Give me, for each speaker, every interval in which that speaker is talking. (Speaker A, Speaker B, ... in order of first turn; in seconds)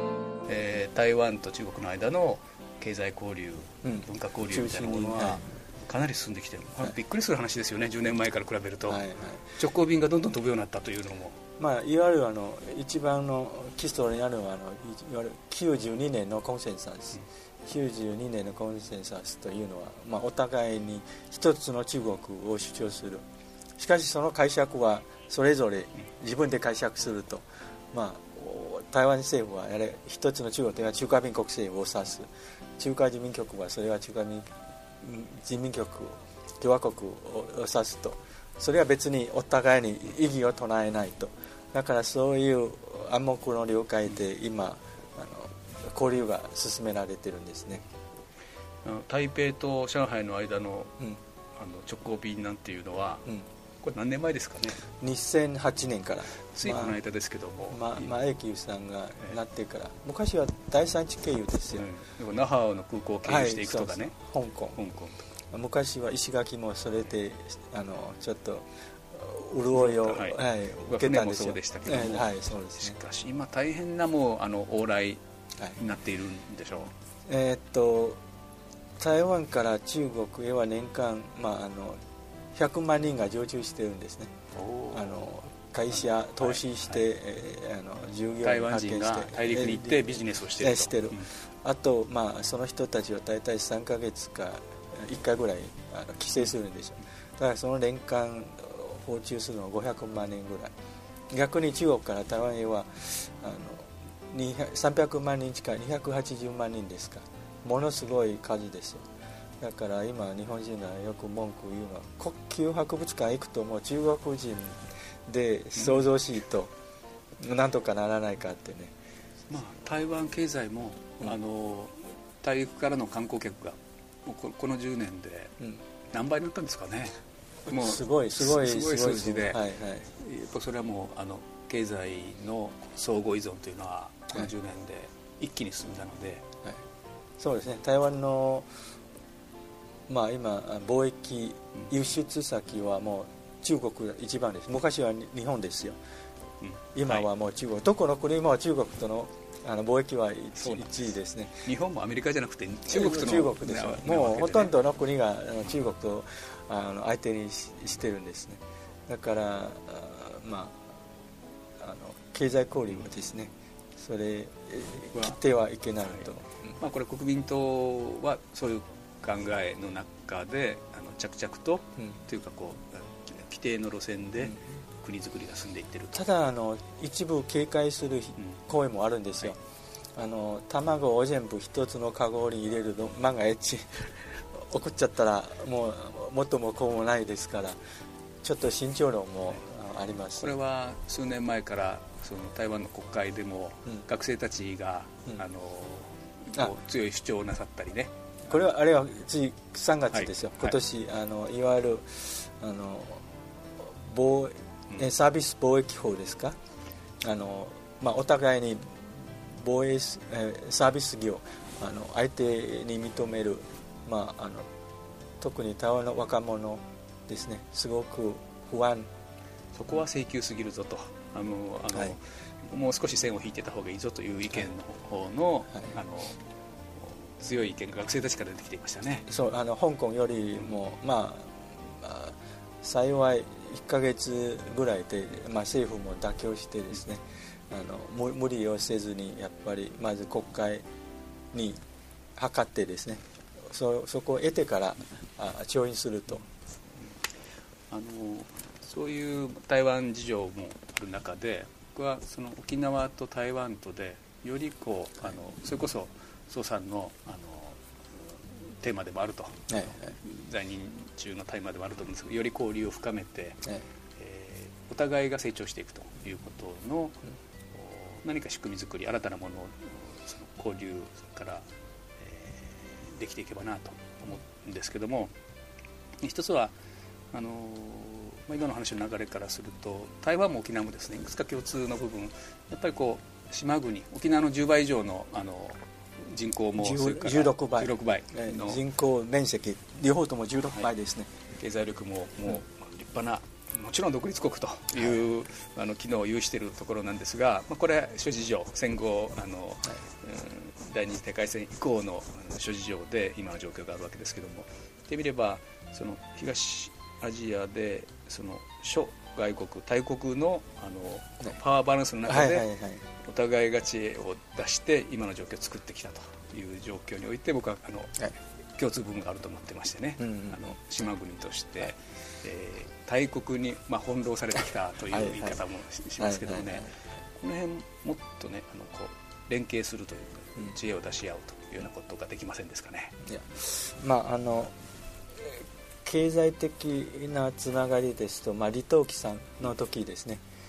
Speaker A: 0.5-9.0, 9.6-11.4, 48.8-51.0, 51.5-53.3, 53.8-54.8, 56.5-58.1, 61.8-64.2, 64.8-65.3, 69.7-75.2, 75.8-76.9, 84.5-85.2, 86.4-87.0, 88.4-91.3, 115.8-116.0, 119.5-125.6, 126.1-129.6, 130.1-136.4, 146.6-147.3, 150.6-151.0, 151.6-154.7, 166.8-176.2, 190.4-198.6, 200.1-200.8, 219.7-226.4, 226.9-229.3, 247.9-263.6, 264.2-267.2, 267.7-271.7, 272.2-275.3, 276.2-276.7, 277.3-288.8, 291.6-312.7, 313.2-333.2
Speaker B: 3.8-5.4, 8.9-9.6, 11.6-23.2, 23.8-34.5, 35.0-47.9, 54.8-57.0, 57.7-61.9, 63.2-64.8, 65.5-73.0, 77.2-78.2, 79.0-82.0, 82.5-84.3, 84.9-100.8, 101.3-109.1, 109.6-116.7, 117.4-118.9, 127.7-130.1, 137.4-138.8, 140.1-146.0, 146.9-151.7, 152.9-160.9, 161.8-166.8, 174.4-174.7, 176.1-179.6, 180.2-187.8, 188.4-190.6, 198.5-203.2, 203.8-206.6, 207.2-214.7, 215.4-219.1, 229.3-240.8, 241.5-241.8, 242.3-246.4, 259.7-260.1, 286.8-291.3, 312.3-313.0, 320.2-320.7, 325.1-325.6, 326.2-326.9, 333.2-334.7, 335.3-340.4